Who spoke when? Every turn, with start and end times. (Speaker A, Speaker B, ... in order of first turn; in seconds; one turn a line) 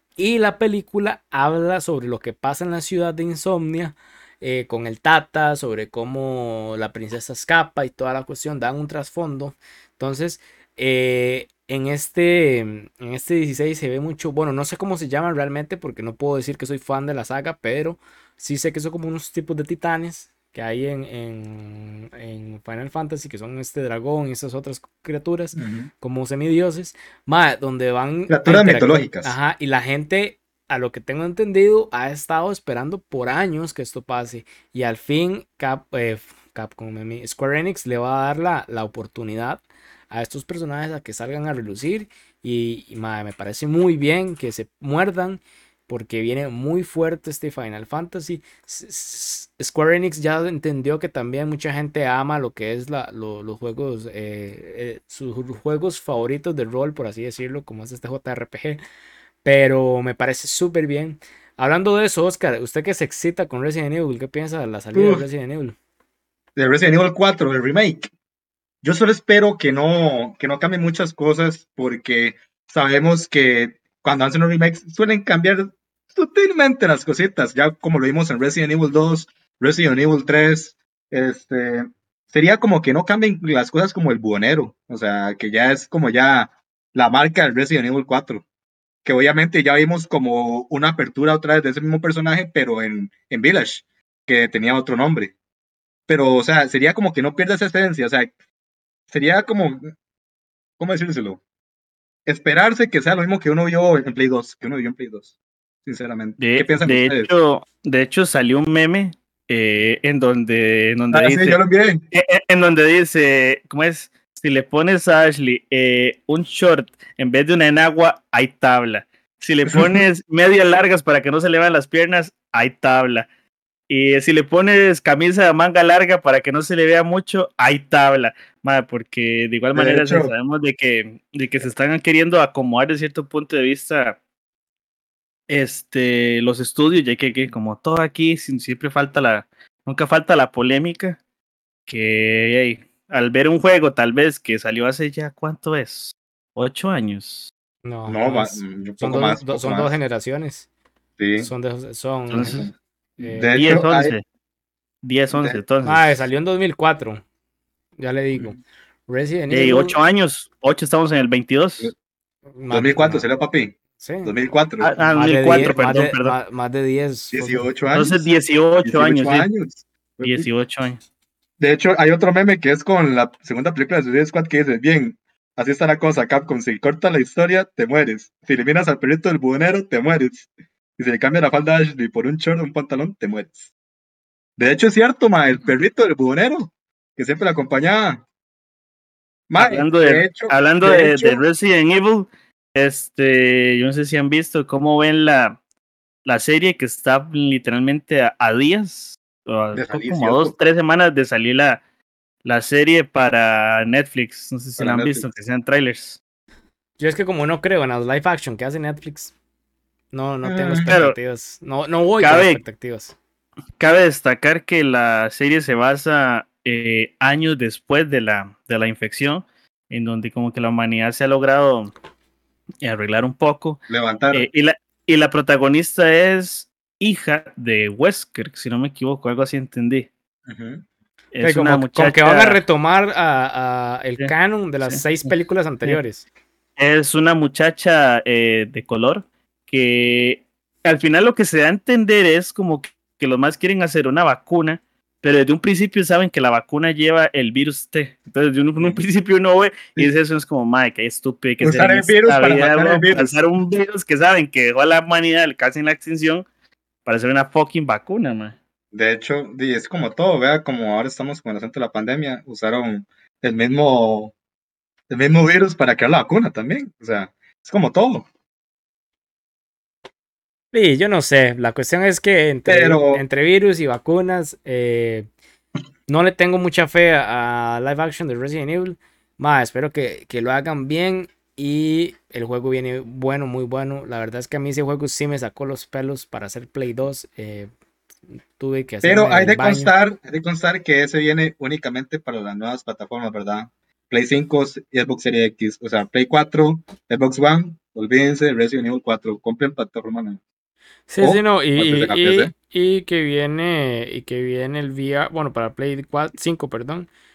Speaker A: 0.2-58.8
Speaker B: 25.6-25.9
Speaker B: 28.3-29.4
Speaker A: 59.4-65.8
Speaker B: 64.9-65.2
Speaker B: 66.5-68.1
Speaker B: 68.8-88.4
Speaker B: 89.0-95.3
Speaker B: 96.1-98.3
Speaker B: 99.1-99.9
Speaker B: 100.8-101.4
Speaker B: 102.2-105.3
Speaker B: 105.8-107.3
Speaker C: 106.4-111.6
Speaker B: 111.1-112.0
Speaker C: 112.1-123.2
Speaker B: 119.7-120.0
Speaker C: 123.9-134.2
Speaker B: 129.7-130.3
Speaker C: 135.5-141.2
Speaker C: 141.9-147.5
Speaker A: 147.8-150.7
Speaker B: 148.1-149.9
Speaker B: 151.2-151.5
Speaker A: 151.4-152.7
Speaker C: 152.3-152.7
Speaker B: 152.4-154.1
Speaker A: 153.2-153.5
Speaker C: 153.5-154.2
Speaker C: 155.0-156.1
Speaker B: 155.3-155.6
Speaker A: 155.8-157.2
Speaker A: 158.0-159.9
Speaker C: 159.5-161.9
Speaker A: 162.6-163.2
Speaker B: 162.7-165.8
Speaker A: 164.0-164.3
Speaker C: 164.8-166.3
Speaker A: 165.1-167.7
Speaker B: 167.3-168.3
Speaker C: 167.9-169.5
Speaker B: 168.8-170.5
Speaker C: 170.2-171.0
Speaker B: 171.6-180.5
Speaker B: 181.0-183.6
Speaker B: 184.6-188.2
Speaker B: 189.5-191.4
Speaker C: 189.6-195.6
Speaker C: 196.2-201.8
Speaker B: 199.7-200.5
Speaker C: 202.4-206.2
Speaker B: 204.8-205.3
Speaker A: 207.0-209.3
Speaker A: 210.1-213.1
Speaker B: 210.4-210.9
Speaker C: 210.8-211.2
Speaker C: 212.2-212.6
Speaker C: 213.8-221.9
Speaker C: 222.8-223.8
Speaker B: 223.9-224.5
Speaker C: 224.3-230.1
Speaker B: 230.5-230.8
Speaker C: 231.3-232.6
Speaker A: 231.4-236.2
Speaker C: 236.8-256.4
Speaker B: 251.6-253.4
Speaker C: 257.1-258.6
Speaker B: 258.9-264.3
Speaker B: 265.1-268.2
Speaker A: 270.7-275.3
Speaker B: 272.7-273.2
Speaker A: 276.1-287.7
Speaker A: 288.6-289.9
Speaker B: 289.0-300.4
Speaker A: 301.1-307.1
Speaker B: 301.2-302.5